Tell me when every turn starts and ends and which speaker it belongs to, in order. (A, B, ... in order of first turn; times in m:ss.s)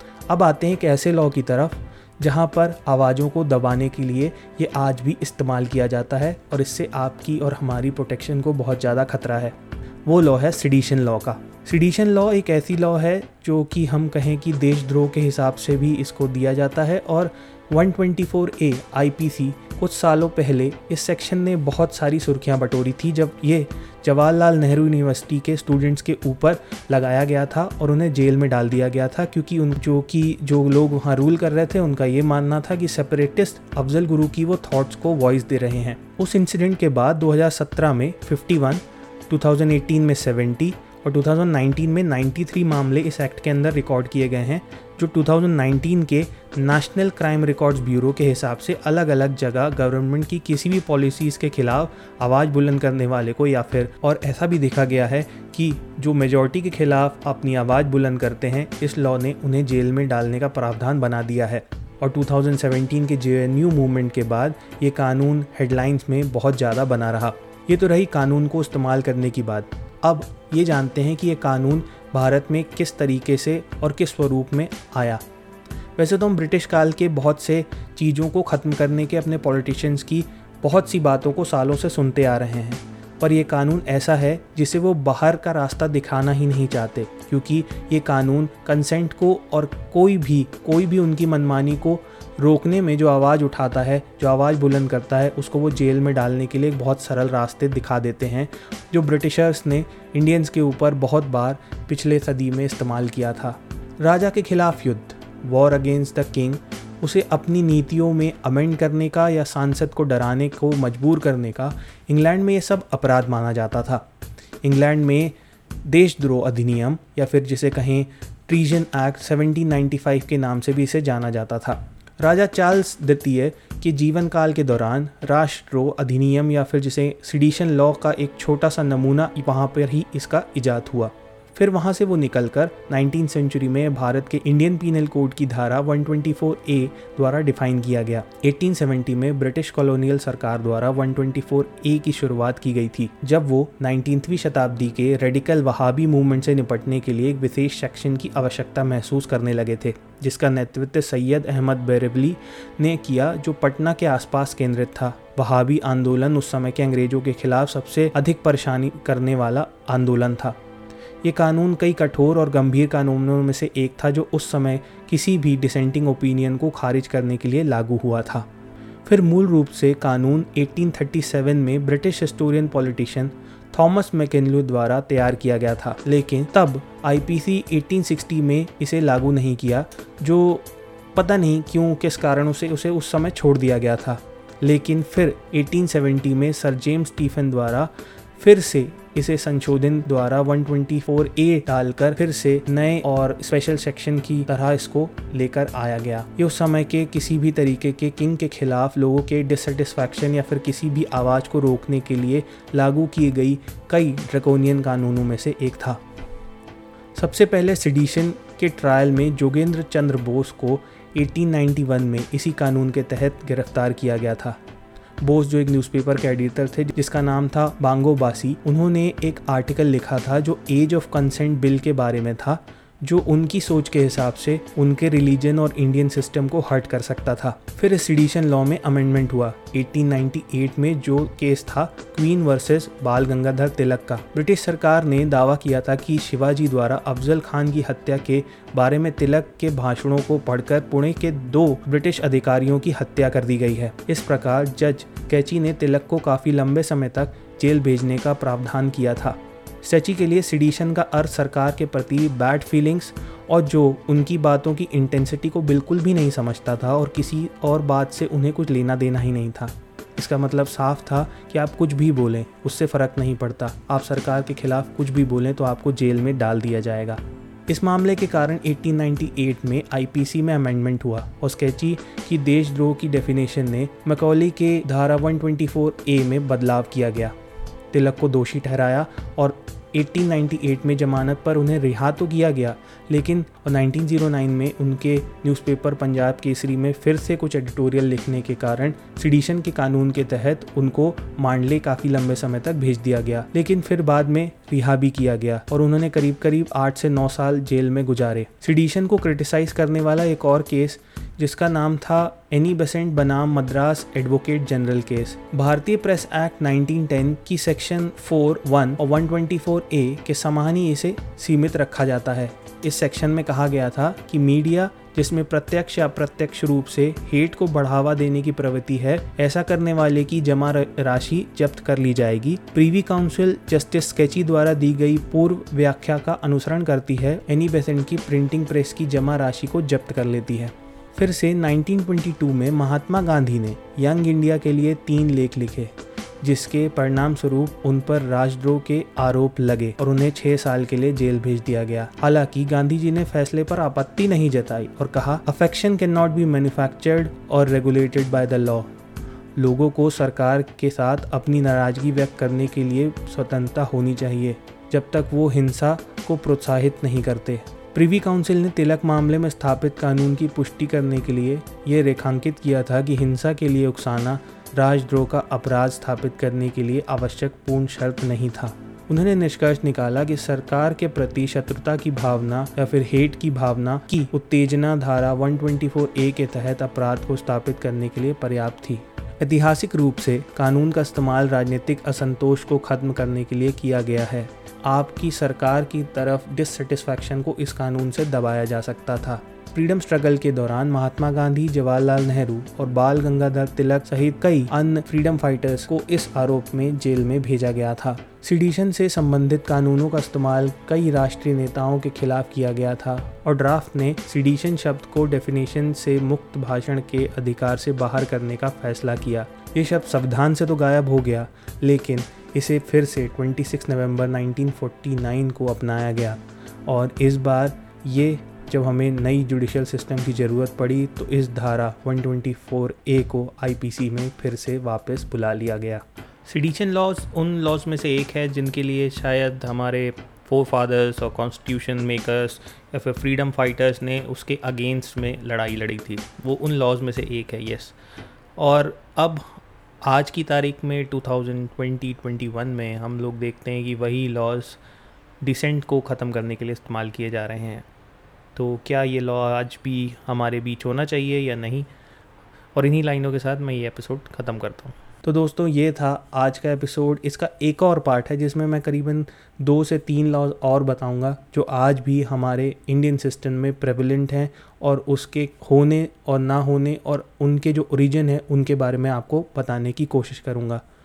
0:00.3-1:15.2 A
1:16.0-1:54.0 A
1:54.6-1:55.3 A
1:55.8-2:40.6 A
2:41.2-2:48.5 A
2:49.0-3:26.0 A
3:27.1-3:34.6 A
3:35.2-4:37.3 A
4:37.9-5:48.9 A
5:49.6-7:17.9 A
7:18.6-7:24.8 A
7:25.4-7:27.9 A
7:28.6-7:31.9 A
7:32.7-7:50.8 A